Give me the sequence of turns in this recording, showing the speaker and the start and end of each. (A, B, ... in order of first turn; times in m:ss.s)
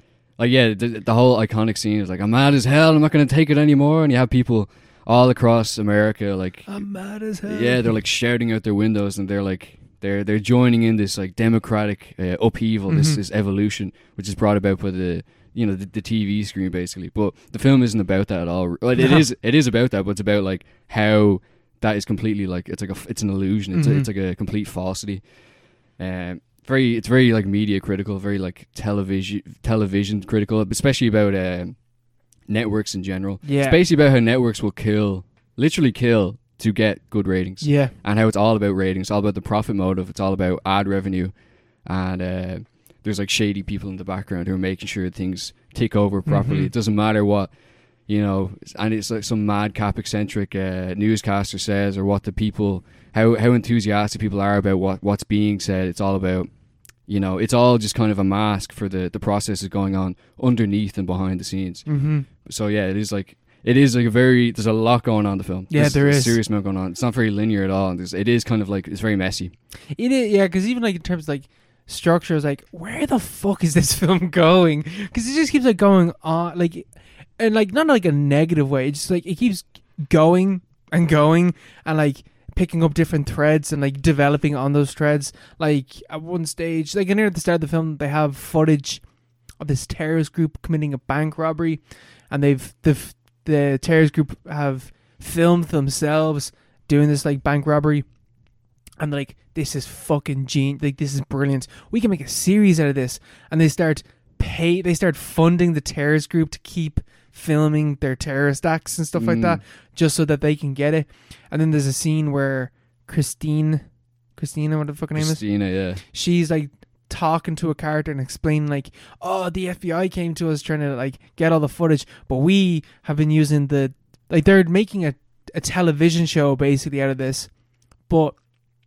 0:00.4-0:06.7 A
0:06.7-0:07.9 B
0:07.4-0:25.2 A
0:12.9-0:13.2 B
0:19.0-0:19.2 B
0:23.7-0:24.1 B
0:26.0-0:31.8 A
0:32.5-0:41.3 A
0:33.4-0:33.8 B
0:37.6-0:37.9 B
0:41.8-0:47.5 A
0:46.3-0:46.7 B
0:48.1-0:56.5 A
0:57.1-1:01.8 A
1:01.9-1:02.3 B
1:02.4-1:09.5 A
1:05.7-1:06.4 B
1:10.0-1:16.9 B
1:17.4-1:29.0 B
1:29.6-1:38.1 B
1:39.0-1:53.8 B
1:49.1-1:49.6 A
1:54.4-1:55.4 B
1:55.2-1:56.0 A
1:56.1-2:07.5 B
2:08.1-2:08.4 B